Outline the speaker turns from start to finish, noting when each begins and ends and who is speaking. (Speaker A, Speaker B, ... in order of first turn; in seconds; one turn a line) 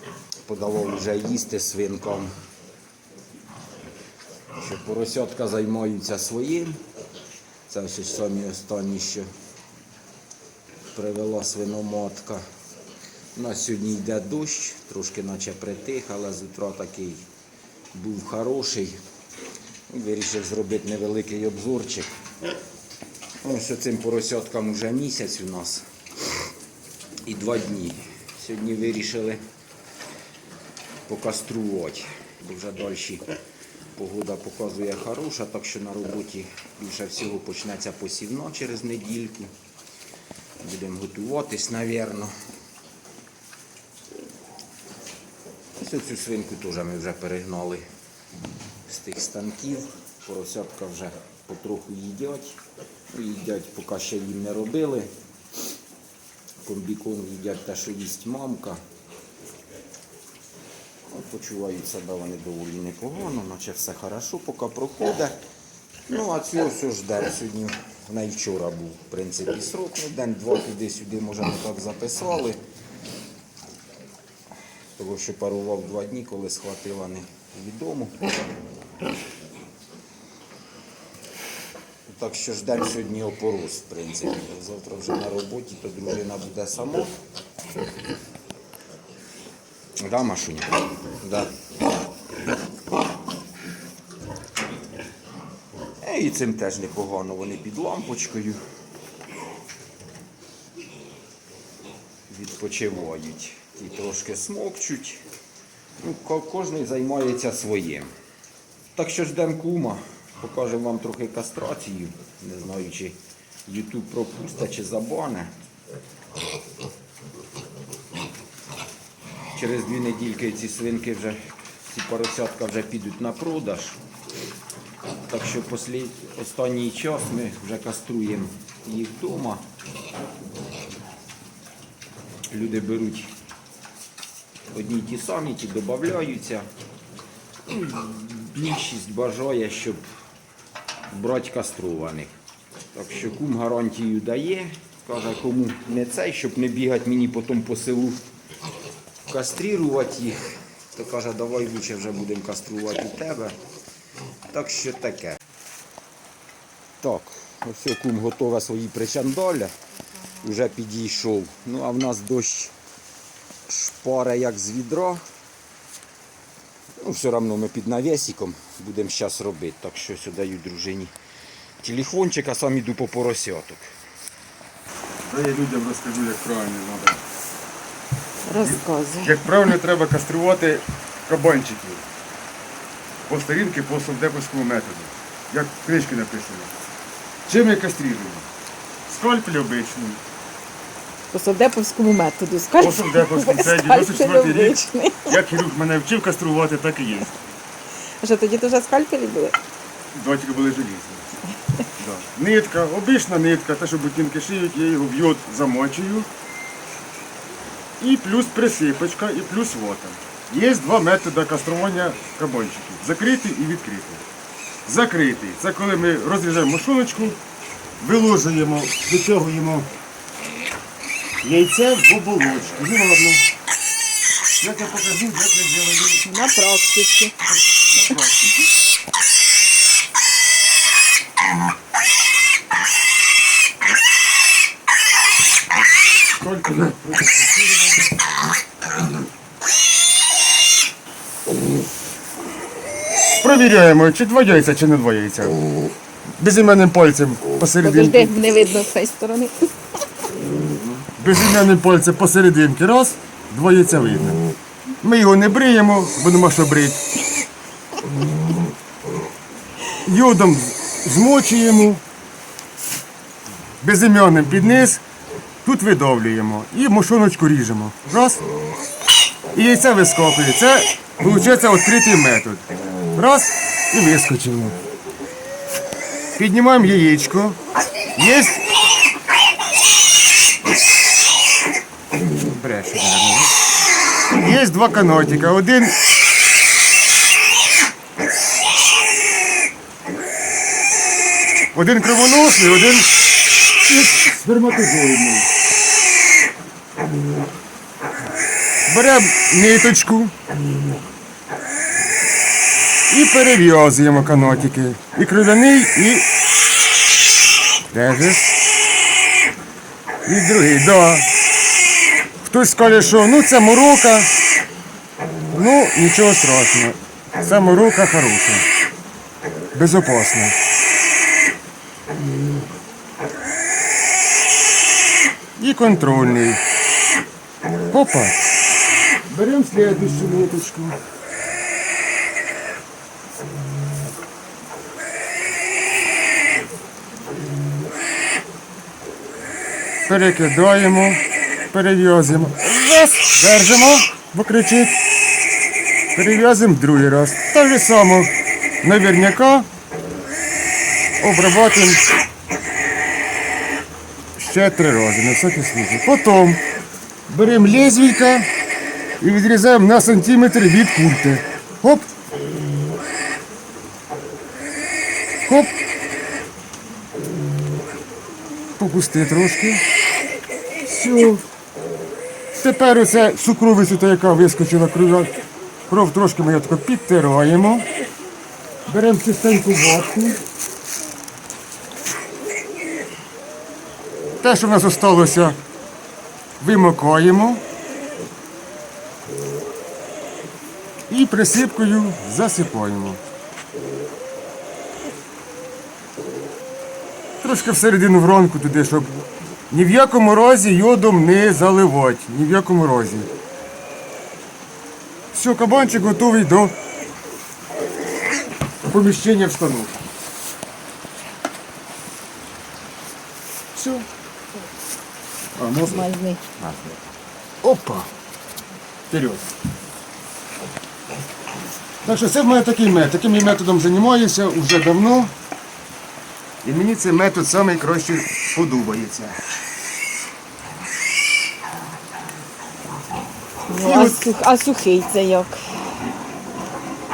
Speaker A: 0.5-2.3
Speaker A: 4.6-6.8
Speaker A: 7.7-9.3
Speaker A: 10.9-12.4
Speaker A: 13.3-17.3
Speaker A: 17.9-19.0
Speaker A: 19.9-22.1
Speaker A: 23.4-25.9
Speaker A: 27.3-29.4
Speaker A: 31.1-33.3
Speaker A: 34.0-39.5
Speaker A: 40.6-42.3
Speaker A: 45.8-47.8
Speaker A: 48.9-52.6
Speaker A: 53.1-55.1
Speaker A: 56.6-58.8
Speaker A: 61.1-65.4
Speaker A: 66.1-72.6
Speaker A: 75.0-78.2
Speaker A: 82.1-87.2
Speaker A: 90.0-91.5
Speaker A: 96.0-98.6
Speaker A: 102.3-105.2
Speaker A: 106.0-108.1
Speaker A: 109.0-115.5
Speaker A: 119.5-121.4
Speaker A: 121.9-124.0
Speaker A: 125.3-129.7
Speaker A: 132.5-133.3
Speaker A: 134.7-136.7
Speaker A: 137.7-140.0
Speaker A: 141.1-142.3
Speaker A: 142.9-148.2
Speaker A: 149.3-153.6
Speaker A: 154.5-155.4
Speaker A: 157.0-159.7
Speaker A: 160.4-162.7
Speaker A: 163.7-165.2
Speaker A: 167.0-171.1
Speaker A: 171.8-173.9
Speaker B: 175.2-177.2
Speaker C: 178.5-179.4
Speaker B: 178.6-182.0
Speaker B: 183.3-186.7
Speaker B: 187.5-188.4
Speaker B: 189.1-190.2
Speaker C: 191.3-195.4
Speaker B: 192.8-197.3
Speaker C: 198.2-199.6
Speaker B: 200.1-201.2
Speaker B: 202.0-206.3
Speaker B: 208.0-214.2
Speaker B: 214.9-217.4
Speaker B: 218.0-219.9
Speaker B: 221.4-223.4
Speaker B: 224.6-226.2
Speaker C: 226.2-227.3
Speaker B: 227.4-228.6
Speaker B: 236.4-238.1
Speaker B: 243.4-245.6
Speaker B: 246.4-248.3
Speaker C: 247.8-249.7
Speaker B: 251.2-254.4
Speaker B: 255.0-257.0
Speaker B: 260.0-262.0
Speaker B: 263.8-265.0
Speaker B: 265.6-268.4
Speaker B: 269.5-274.8
Speaker B: 276.4-277.6
Speaker B: 278.2-278.6
Speaker B: 282.5-283.5
Speaker B: 284.3-286.0
Speaker B: 291.7-293.1
Speaker B: 293.9-295.5
Speaker B: 298.9-300.3
Speaker B: 303.1-306.3
Speaker B: 307.9-308.5
Speaker B: 310.2-311.3
Speaker B: 312.4-314.3
Speaker B: 315.5-318.7
Speaker B: 319.7-320.6
Speaker B: 325.6-326.6
Speaker B: 327.9-328.4
Speaker B: 329.3-331.0
Speaker B: 340.1-345.0
Speaker B: 346.1-349.7
Speaker B: 351.2-352.0
Speaker B: 354.4-356.6
Speaker B: 357.3-358.5
Speaker B: 359.2-362.1
Speaker B: 365.5-365.7
Speaker B: 368.8-369.8
Speaker B: 370.9-371.4
Speaker B: 372.6-375.3
Speaker B: 375.9-377.9
Speaker B: 378.9-380.4
Speaker B: 384.4-385.6
Speaker B: 386.6-387.6
Speaker B: 391.1-393.2
Speaker B: 397.4-399.1
Speaker B: 399.7-403.3
Speaker B: 405.3-406.7
Speaker B: 408.9-410.0
Speaker B: 413.8-414.1
Speaker B: 415.6-416.1
Speaker C: 415.8-416.4
Speaker A: 416.6-417.0
Speaker B: 417.6-418.1
Speaker B: 419.1-419.5
Speaker B: 422.0-425.3
Speaker B: 426.6-429.4
Speaker C: 433.7-435.6
Speaker B: 433.8-434.2